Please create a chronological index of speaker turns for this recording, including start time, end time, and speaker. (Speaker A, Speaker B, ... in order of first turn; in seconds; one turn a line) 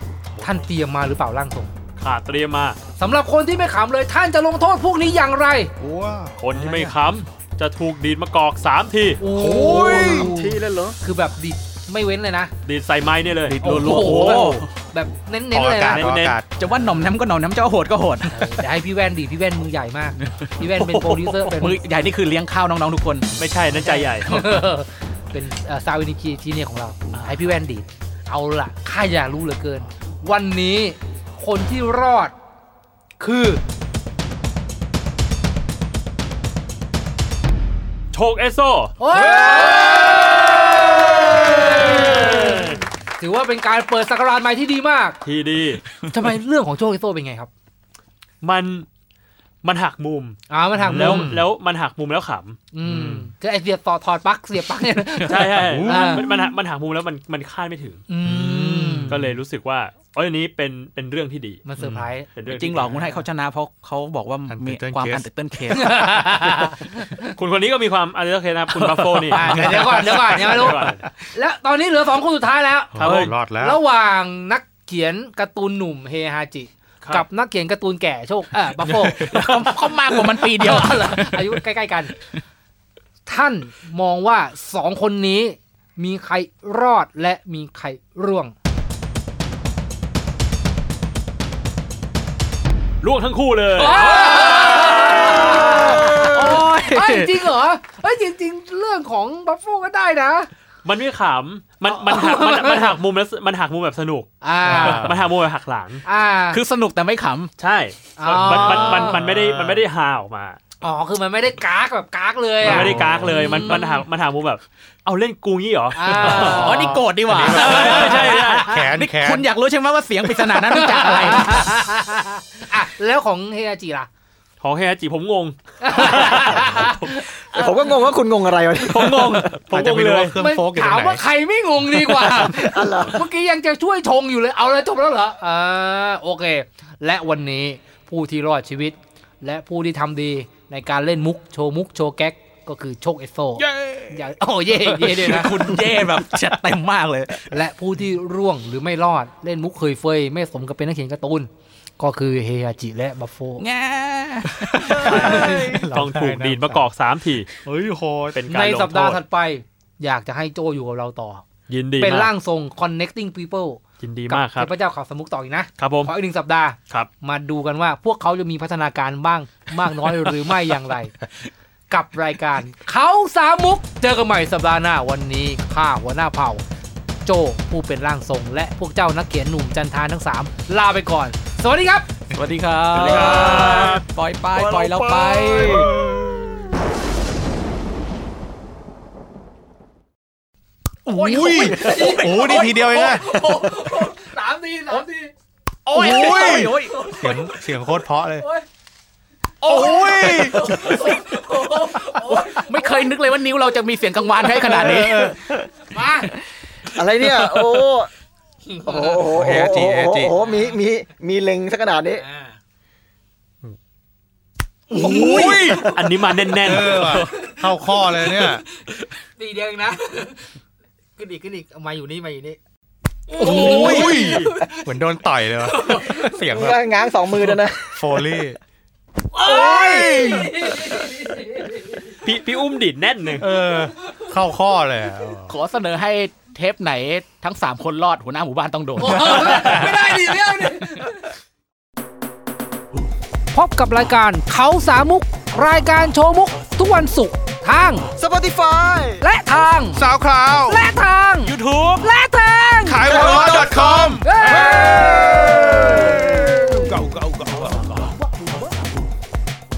Speaker A: 0.4-1.7
Speaker B: 2.0-2.8
Speaker A: 3.0-5.7
Speaker C: 5.8-7.0
Speaker B: 6.4-9.2
Speaker A: 9.2-12.5
Speaker C: 9.3-10.3
Speaker D: 9.6-10.9
Speaker B: 12.6-13.6
Speaker E: 13.4-14.7
Speaker A: 13.6-16.1
Speaker C: 14.0-14.6
Speaker C: 15.5-16.5
Speaker B: 15.8-16.4
Speaker E: 16.5-18.6
Speaker A: 18.3-21.8
Speaker E: 20.2-20.5
Speaker B: 20.7-21.5
Speaker E: 21.6-23.3
Speaker B: 23.4-24.3
Speaker A: 23.8-32.3
Speaker E: 24.2-24.7
Speaker E: 27.1-27.5
Speaker A: 33.2-33.6
Speaker B: 38.1-38.9
Speaker A: 39.0-45.2
Speaker C: 39.4-40.2
Speaker B: 42.3-42.7
Speaker B: 45.2-45.8
Speaker A: 46.1-47.5
Speaker B: 48.4-48.9
Speaker B: 49.6-50.4
Speaker A: 50.5-51.3
Speaker C: 50.8-51.5
Speaker B: 50.9-52.6
Speaker A: 52.7-56.5
Speaker C: 52.8-53.3
Speaker E: 55.2-55.5
Speaker B: 55.3-58.0
Speaker C: 55.6-56.3
Speaker A: 58.1-59.2
Speaker C: 58.2-59.4
Speaker B: 59.1-61.6
Speaker A: 61.6-62.3
Speaker C: 61.8-62.1
Speaker B: 62.4-62.8
Speaker E: 62.4-66.4
Speaker C: 64.5-65.3
Speaker A: 65.7-67.3
Speaker B: 67.3-69.6
Speaker A: 69.3-79.3
Speaker C: 69.3-71.0
Speaker B: 70.5-71.0
Speaker C: 72.9-73.8
Speaker B: 73.0-73.3
Speaker C: 78.8-80.3
Speaker E: 78.9-81.6
Speaker A: 80.4-82.1
Speaker A: 83.2-88.5
Speaker B: 93.0-94.0
Speaker A: 93.8-100.5
Speaker E: 93.8-97.5
Speaker B: 100.8-104.3
Speaker A: 101.9-103.0
Speaker A: 104.4-105.1
Speaker C: 104.6-105.2
Speaker B: 104.9-106.0
Speaker A: 106.0-106.6
Speaker E: 106.5-107.5
Speaker B: 107.6-110.6
Speaker A: 108.2-109.2
Speaker C: 108.5-109.8
Speaker A: 110.8-114.0
Speaker B: 112.6-116.8
Speaker E: 112.7-113.3
Speaker A: 115.9-117.1
Speaker E: 116.1-121.6
Speaker C: 116.8-119.5
Speaker B: 117.5-118.7
Speaker A: 120.5-124.1
Speaker B: 124.6-126.9
Speaker A: 125.8-128.0
Speaker D: 127.5-129.5
Speaker B: 128.8-130.3
Speaker C: 129.6-131.2
Speaker A: 130.3-145.8
Speaker D: 132.4-133.2
Speaker E: 143.6-147.6
Speaker A: 147.5-153.7
Speaker E: 153.6-155.0
Speaker C: 154.7-156.8
Speaker B: 155.0-157.5
Speaker A: 155.1-155.7
Speaker C: 157.6-158.4
Speaker B: 158.3-159.2
Speaker A: 158.5-161.4
Speaker B: 161.7-162.3
Speaker A: 162.0-171.1
Speaker B: 164.0-164.7
Speaker B: 165.8-166.1
Speaker A: 171.9-176.6
Speaker A: 177.2-182.1
Speaker E: 182.3-185.9
Speaker B: 182.9-184.0
Speaker C: 184.6-186.4
Speaker C: 191.1-193.4
Speaker E: 191.1-193.8
Speaker A: 191.7-195.3
Speaker E: 195.8-197.5
Speaker C: 195.9-198.5
Speaker A: 196.1-197.4
Speaker A: 198.4-198.6
Speaker E: 199.6-201.1
Speaker C: 199.6-201.1
Speaker A: 200.0-203.1
Speaker C: 202.0-202.5
Speaker E: 202.3-205.3
Speaker C: 204.5-205.4
Speaker D: 204.5-205.7
Speaker A: 205.9-206.3
Speaker D: 206.9-208.1
Speaker E: 207.2-207.8
Speaker A: 208.7-209.3
Speaker D: 208.8-212.2
Speaker C: 209.3-210.3
Speaker A: 210.4-210.8
Speaker A: 212.1-212.6
Speaker E: 214.9-215.8
Speaker C: 214.9-215.9
Speaker D: 215.0-216.0
Speaker B: 215.4-216.9
Speaker C: 216.6-218.6
Speaker E: 216.9-217.3
Speaker A: 218.2-218.6
Speaker A: 219.4-220.5
Speaker A: 221.2-222.6
Speaker A: 223.3-224.8
Speaker C: 223.4-226.8
Speaker D: 223.4-224.2
Speaker B: 223.5-224.5
Speaker A: 225.7-226.2
Speaker D: 226.4-228.0
Speaker C: 227.3-228.6
Speaker A: 229.3-231.8
Speaker C: 229.4-230.7
Speaker B: 232.2-233.4
Speaker C: 233.4-235.6
Speaker E: 235.5-239.9
Speaker A: 239.0-241.1
Speaker A: 243.5-248.1
Speaker D: 248.2-249.2
Speaker A: 249.2-250.0
Speaker C: 249.9-250.8
Speaker A: 250.6-253.4
Speaker E: 251.4-252.0
Speaker C: 252.8-257.9
Speaker D: 253.0-256.9
Speaker A: 254.2-255.3